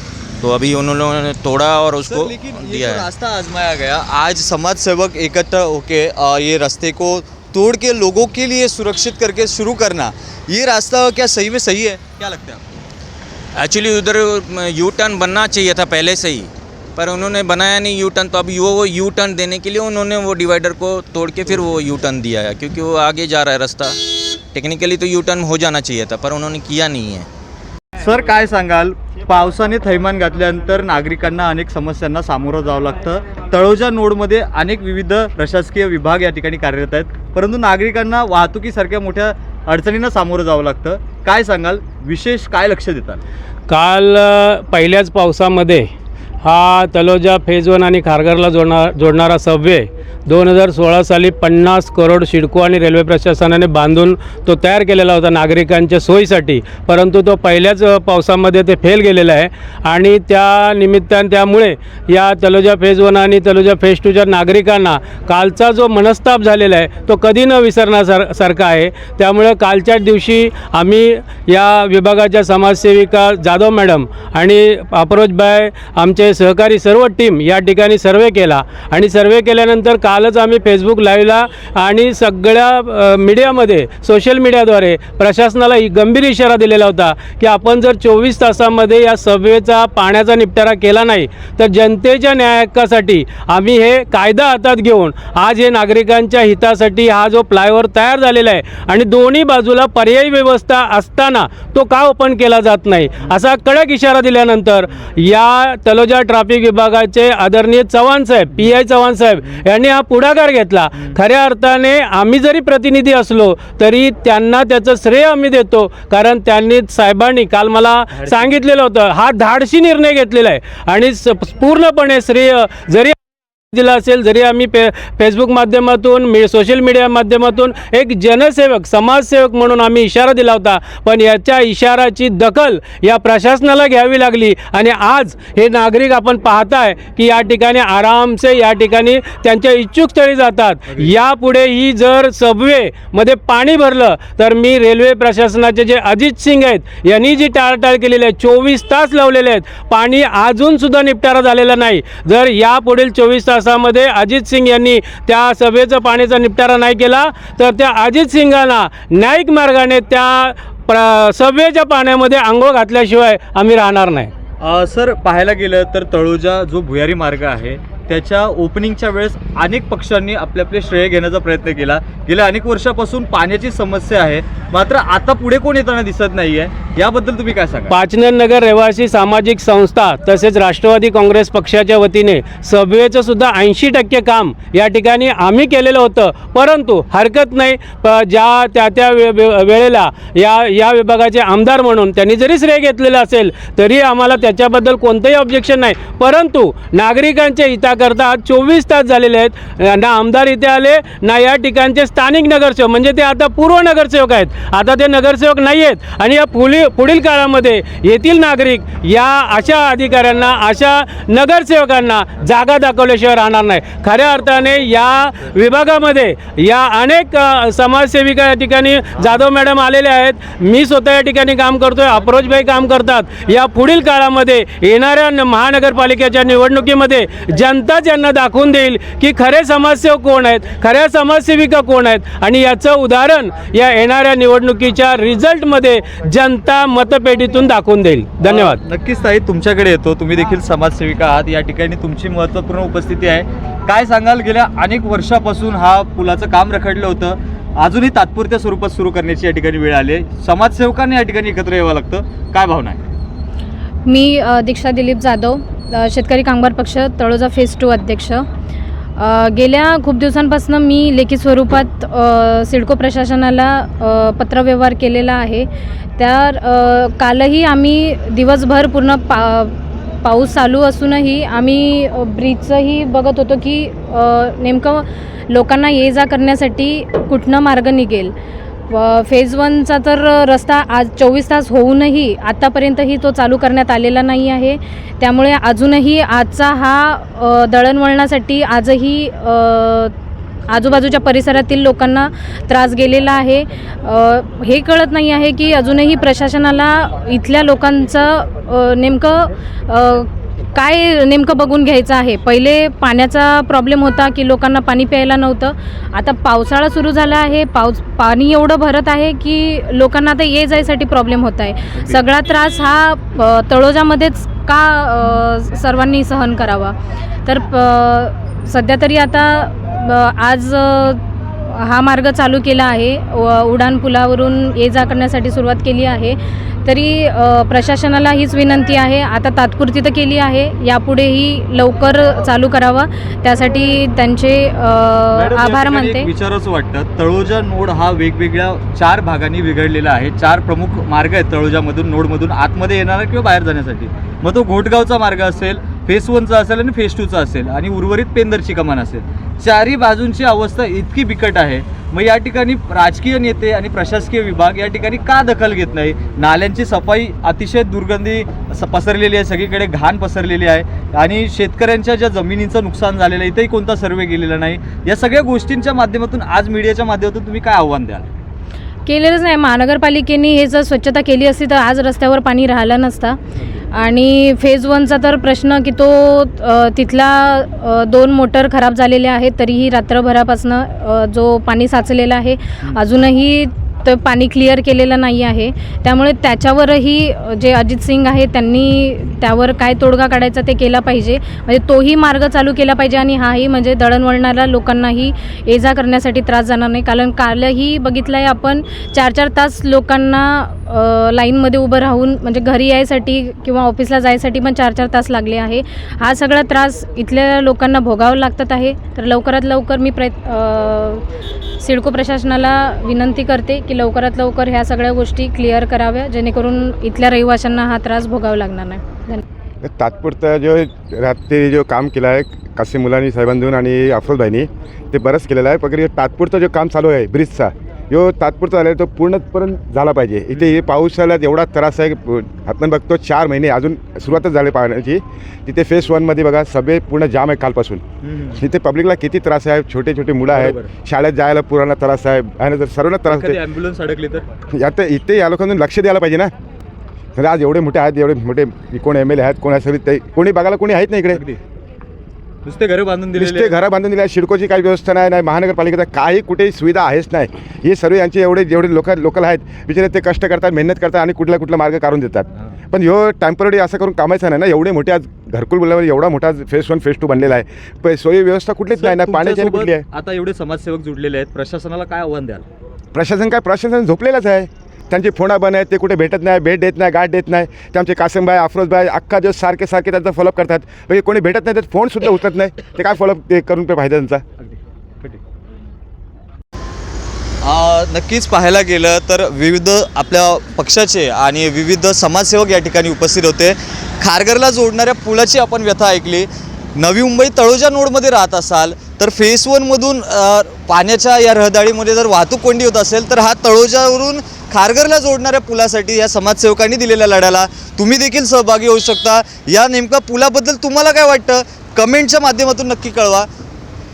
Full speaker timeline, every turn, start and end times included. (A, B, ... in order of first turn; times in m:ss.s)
0:00.4-0:03.1 A
0:02.1-0:12.6 B
0:13.6-0:27.3 A
0:28.0-0:43.2 B
0:28.4-0:32.9 C
0:34.4-0:37.2 C
0:38.1-0:41.4 C
0:42.3-0:43.0 C
0:43.7-0:45.9 D
0:46.4-2:03.2 D
1:58.2-1:58.5 C
2:03.7-2:44.3 D
2:44.6-2:57.9 B
2:44.7-2:54.4 C
2:54.9-2:56.7 C
2:57.4-2:57.8 C
2:57.9-3:58.8 D
3:58.4-4:13.0 C
3:59.0-4:03.2 B
4:03.9-4:07.3 B
4:07.8-4:12.9 B
4:14.1-4:18.4 E
4:19.2-4:38.3 E
4:38.9-4:50.1 E
4:50.7-5:36.3 E
5:35.4-6:08.2 C
5:35.7-5:43.9 B
5:44.4-5:49.2 B
5:50.1-6:08.2 B
6:09.1-6:13.4 E
6:13.9-6:51.2 E
6:51.8-6:59.4 E
6:59.8-7:23.6 F
7:18.3-7:18.6 C
7:23.3-7:24.4 C
7:24.7-7:26.5 F
7:27.4-7:31.4 F
7:32.7-7:33.7 C
7:33.3-7:50.1 F
7:49.0-7:52.6 C
7:53.1-8:04.4 F
8:07.6-8:33.4 B